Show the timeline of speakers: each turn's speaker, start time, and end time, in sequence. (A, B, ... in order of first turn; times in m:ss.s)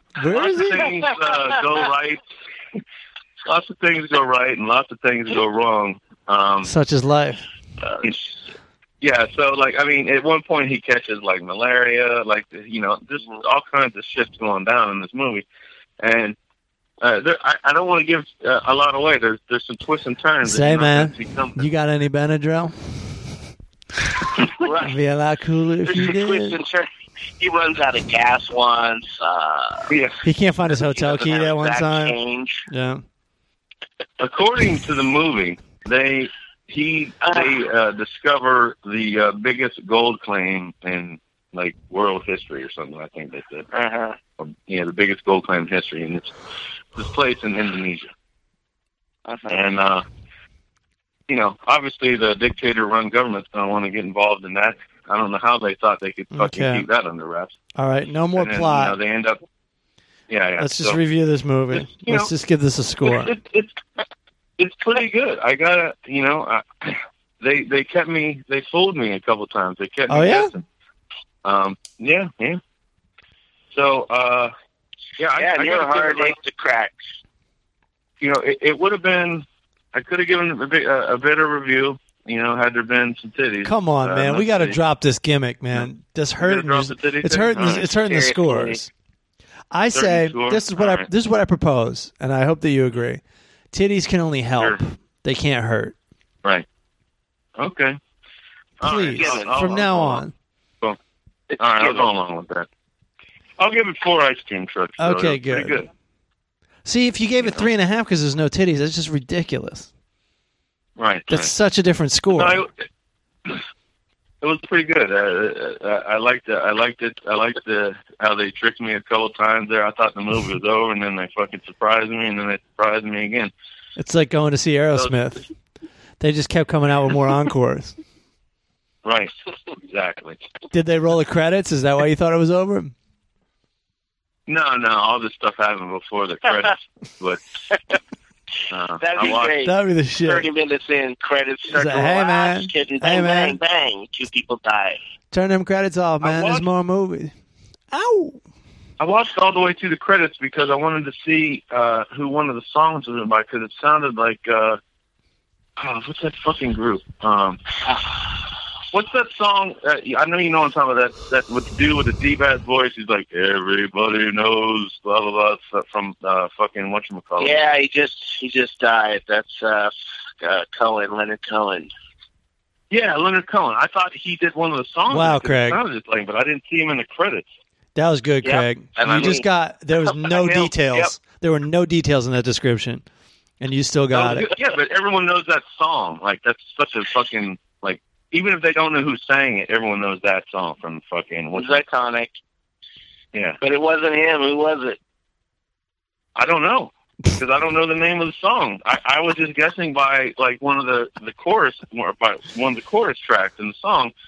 0:00.2-0:01.0 A
0:00.2-0:02.2 B
0:03.4-0:06.7 B
0:06.6-0:07.4 A
0:07.9-0:08.2 C
0:09.0-0:15.4 B
0:16.0-0:16.4 B
0:17.0-0:21.7 B
0:20.4-0:23.4 A
0:24.4-0:25.0 C
0:24.8-0:26.6 A
0:25.8-0:26.9 C
0:27.4-0:29.9 C
0:29.9-0:30.2 B
0:30.2-0:33.0 A
0:30.8-0:32.7 C
0:34.2-0:43.7 B
0:37.2-0:37.5 C
0:43.7-0:44.2 C
0:44.4-0:46.3 B
0:46.9-0:48.1 B
0:49.3-0:49.6 C
0:49.5-0:50.0 B
0:51.3-0:57.6 B
0:56.3-0:56.9 A
0:57.8-0:59.0 A
0:58.4-0:59.4 B
1:00.3-1:01.0 B
1:00.6-1:03.3 A
1:01.8-1:02.3 B
1:03.0-1:03.8 B
1:04.6-1:10.6 B
1:10.1-1:10.5 A
1:11.4-1:12.6 B
1:13.7-1:14.5 B
1:15.2-1:16.4 B
1:15.4-1:17.0 C
1:18.2-1:24.8 B
1:23.6-1:28.9 A
1:26.4-1:27.9 B
1:27.8-1:28.8 C
1:29.7-1:33.2 A
1:29.9-1:31.1 B
1:33.7-1:36.0 A
1:37.6-1:38.0 B
1:38.8-1:40.2 B
1:38.8-1:40.3 A
1:39.1-1:39.7 C
1:41.5-1:42.1 C
1:41.6-1:42.7 B
1:43.6-1:45.9 B
1:45.0-1:45.8 A
1:46.8-1:49.9 A
1:51.0-1:51.5 B
1:51.3-1:52.6 A
1:52.3-1:52.7 B
1:54.4-2:03.5 B
2:04.0-2:05.4 A
2:06.2-2:08.0 A
2:09.0-2:10.4 B
2:10.7-2:12.9 A
2:14.5-2:17.4 B
2:18.7-2:19.6 B
2:19.0-2:25.0 C
2:19.6-2:20.5 A
2:21.7-2:23.6 A
2:25.3-2:27.3 A
2:26.2-2:26.7 B
2:27.9-2:28.4 A
2:29.0-2:34.8 B
2:35.8-2:37.6 B
2:38.9-2:47.6 B
2:47.4-2:51.9 C
2:52.9-2:57.4 B
2:55.1-2:55.8 A
2:58.0-3:03.0 A
2:58.4-2:59.5 C
2:59.0-2:59.4 B
3:00.0-3:01.1 C
3:03.6-3:04.5 A
3:04.1-3:11.8 B
3:11.6-3:12.4 C
3:13.3-3:13.6 B
3:13.6-3:15.0 C
3:16.4-3:24.1 B